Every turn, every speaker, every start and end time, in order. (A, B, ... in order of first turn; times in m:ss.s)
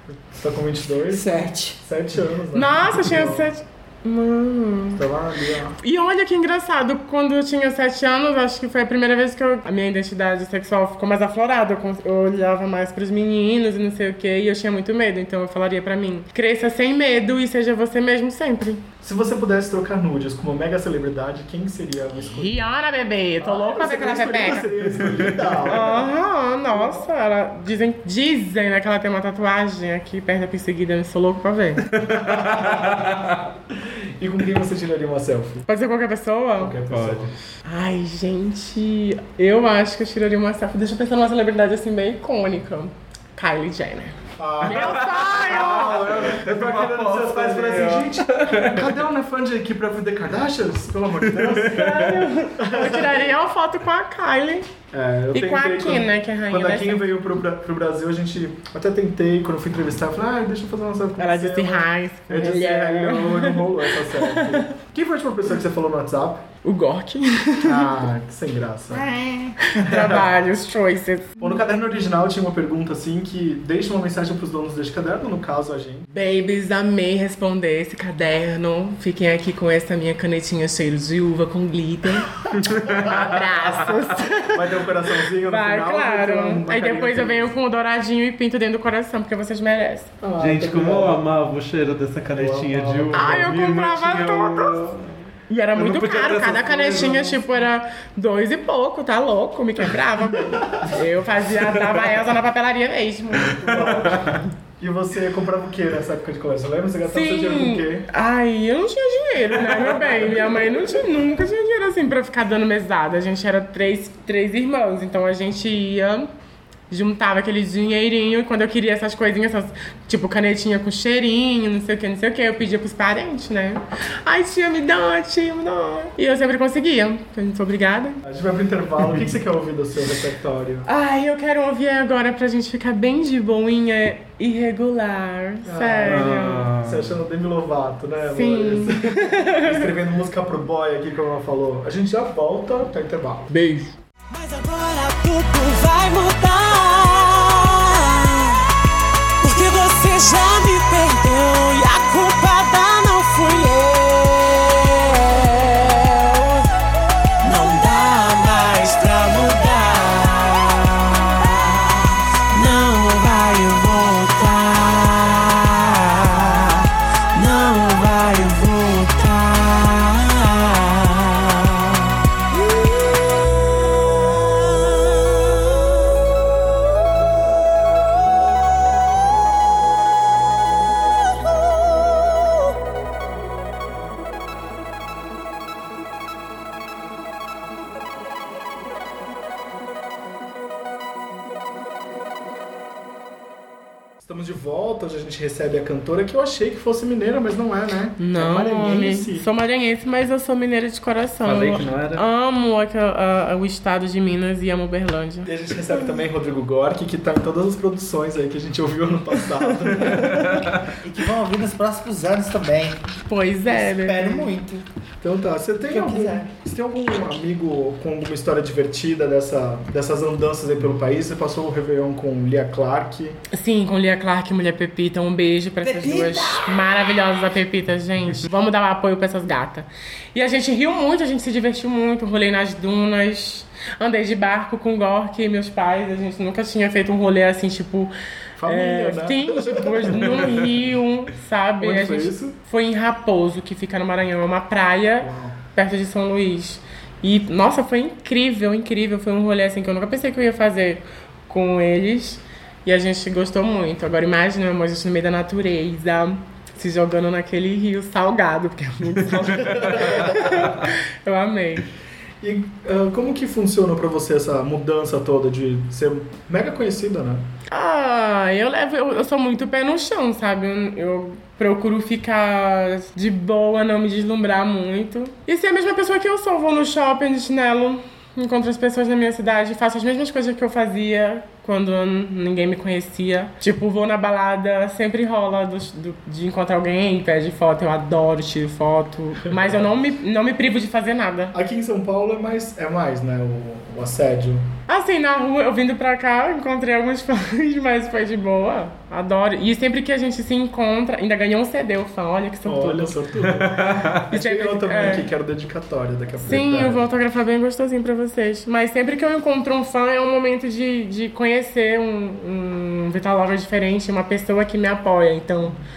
0:00.1-0:03.5 A
0:01.1-0:01.8 B
0:02.6-0:05.0 C
0:05.0-0:05.8 A
0:05.8-0:18.8 C
0:19.0-0:22.6 A
0:22.2-0:24.7 C
0:23.4-0:26.1 A
0:25.1-0:25.6 D
0:25.7-0:31.9 C
0:26.7-0:27.0 A
0:31.9-0:33.5 D
0:32.0-0:35.6 A
0:35.7-0:36.8 C
0:36.6-0:37.4 A
0:36.9-0:37.3 D
0:37.6-0:46.3 C
0:44.4-0:53.4 A
0:44.7-0:45.3 D
0:46.0-0:48.9 D
0:51.3-0:52.1 D
0:51.6-0:54.7 C
0:54.9-1:06.5 A
0:55.3-0:57.1 C
1:01.2-1:04.7 C
1:06.6-1:08.0 C
1:07.6-1:09.1 A
1:08.9-1:09.7 B
1:09.7-1:11.6 C
1:09.8-1:10.2 A
1:11.4-1:16.1 A
1:16.1-1:22.3 C
1:22.5-1:23.7 D
1:22.8-1:23.5 A
1:22.9-1:24.7 C
1:24.5-1:27.5 A
1:25.4-1:30.1 C
1:30.2-1:31.2 A
1:30.4-1:35.2 D
1:32.3-1:33.4 A
1:33.1-1:34.8 C
1:35.5-1:43.6 C
1:35.8-1:37.4 D
1:40.4-1:41.0 A
1:43.4-1:48.1 A
1:43.6-1:44.4 D
1:47.1-1:56.3 C
1:49.6-1:51.1 A
1:56.9-2:08.2 C
2:08.2-2:10.9 A
2:10.9-2:16.7 C
2:15.6-2:23.5 A
2:16.1-2:17.1 D
2:18.3-2:19.9 C
2:23.5-2:23.9 C
2:24.4-2:28.6 E
2:29.4-2:35.7 E
2:37.4-2:42.0 E
2:42.5-2:51.4 E
3:14.2-3:19.5 A
3:18.2-3:26.0 C
3:21.4-3:22.2 D
3:25.4-3:30.7 A
3:30.0-3:30.8 D
3:31.0-3:33.1 B
3:33.2-3:34.5 C
3:33.6-3:34.8 B
3:35.2-3:43.4 A
3:35.9-3:36.5 B
3:43.5-3:58.1 C
3:45.8-3:46.7 B
3:58.6-4:00.7 A
3:58.6-4:21.9 C
4:01.8-4:02.6 A
4:05.2-4:05.6 A
4:19.8-4:20.6 A
4:22.4-4:27.5 A
4:27.7-4:51.5 C
4:51.5-4:54.7 A
4:54.9-5:03.2 C
5:02.6-5:07.1 A
5:03.5-5:04.2 D
5:04.3-5:05.3 C
5:06.4-5:15.8 C